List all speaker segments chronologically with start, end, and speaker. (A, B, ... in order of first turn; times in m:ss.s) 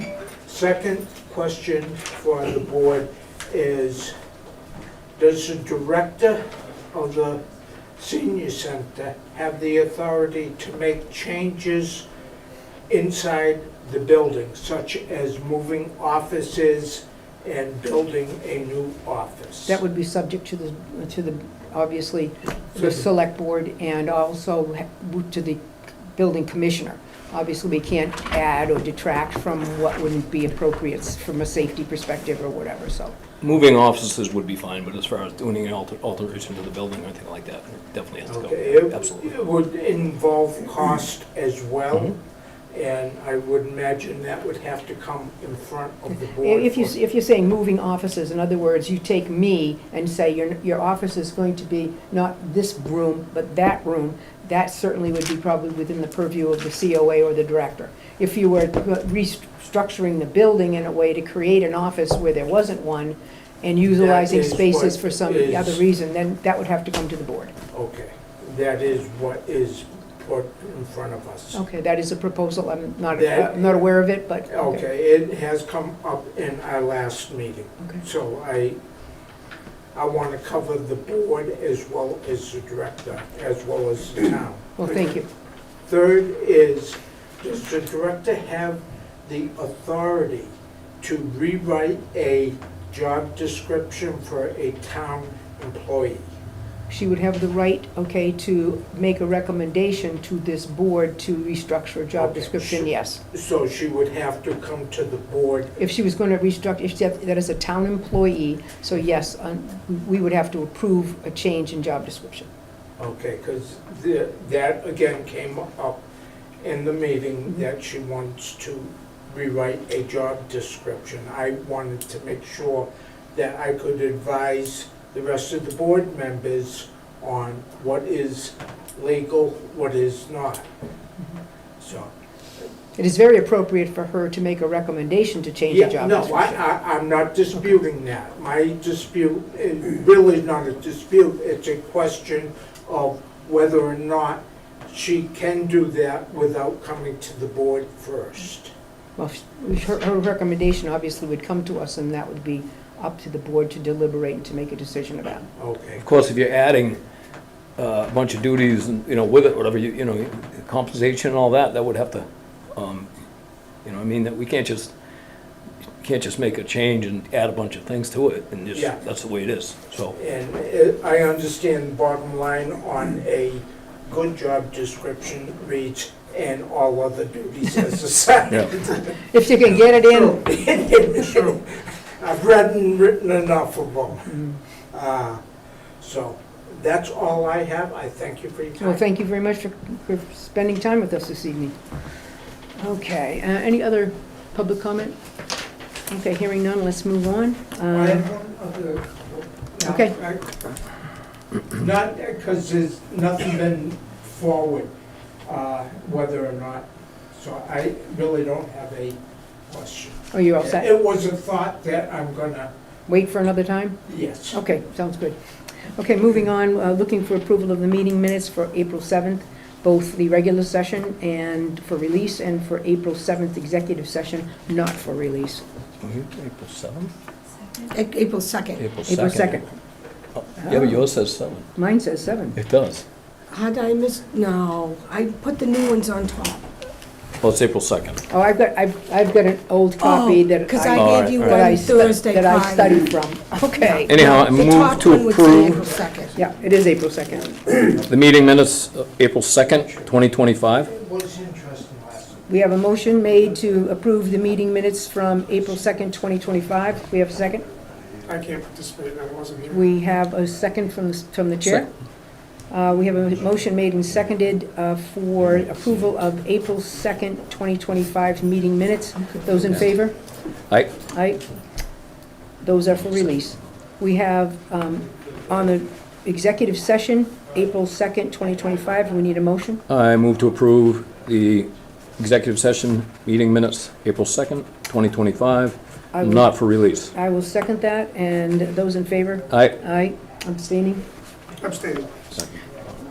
0:00.4-0:04.1 A
0:05.2-0:07.4 A
0:08.0-0:12.1 A
0:12.9-0:19.8 A
0:19.7-0:25.6 B
0:22.8-0:23.0 A
0:26.2-0:33.2 B
0:33.4-0:39.3 C
0:38.2-0:42.2 A
0:42.7-0:47.0 A
0:46.1-1:07.6 B
1:04.0-1:05.8 A
1:07.7-1:11.6 A
1:11.5-1:14.8 B
1:13.1-1:13.9 A
1:14.5-1:18.8 A
1:20.0-1:24.8 A
1:24.8-1:25.3 B
1:25.9-1:36.3 A
1:36.9-1:43.2 B
1:42.2-1:45.8 A
1:45.8-1:52.5 B
1:53.0-1:56.0 A
1:56.6-2:10.7 A
2:11.8-2:12.1 A
2:13.0-2:16.6 B
2:15.7-2:28.7 A
2:29.2-2:35.5 B
2:35.6-2:36.0 A
2:36.0-2:37.0 C
2:37.8-2:43.1 C
2:43.8-2:44.9 C
2:46.0-2:50.2 C
2:48.7-2:49.0 A
2:50.1-2:59.2 A
2:59.2-3:00.4 B
2:59.9-3:04.3 A
3:04.3-3:04.6 B
3:04.9-3:05.4 A
3:06.0-3:09.0 A
3:08.8-3:11.8 B
3:12.8-3:15.2 B
3:16.1-3:18.3 B
3:17.9-3:20.8 A
3:19.8-3:20.2 B
3:21.7-3:24.9 A
3:25.5-3:32.7 A
3:30.3-3:30.9 B
3:33.1-3:34.0 B
3:34.1-3:34.6 A
3:34.5-3:35.4 B
3:36.0-3:45.6 B
3:46.0-3:47.1 C
3:47.8-3:48.8 D
3:48.8-3:49.7 C
3:49.1-3:49.6 B
3:50.4-3:51.7 C
3:50.6-3:51.0 B
3:51.8-3:52.6 B
3:52.6-3:53.0 C
3:53.5-3:56.7 D
3:57.4-3:58.2 C
3:58.3-4:04.2 B
4:00.0-4:03.0 D
4:01.0-4:01.7 C
4:04.1-4:05.9 C
4:04.1-4:06.4 D
4:06.3-4:07.9 B
4:08.1-4:10.9 C
4:10.9-4:12.5 A
4:12.5-4:17.7 B
4:18.2-4:19.9 E
4:19.7-4:21.9 B
4:22.7-4:30.2 B
4:30.7-4:31.0 C
4:31.1-4:31.4 B
4:32.6-4:39.8 B
4:39.9-4:47.1 C
4:46.1-4:46.5 B
4:47.1-4:51.0 B
4:49.5-4:49.8 C
4:51.6-4:52.1 E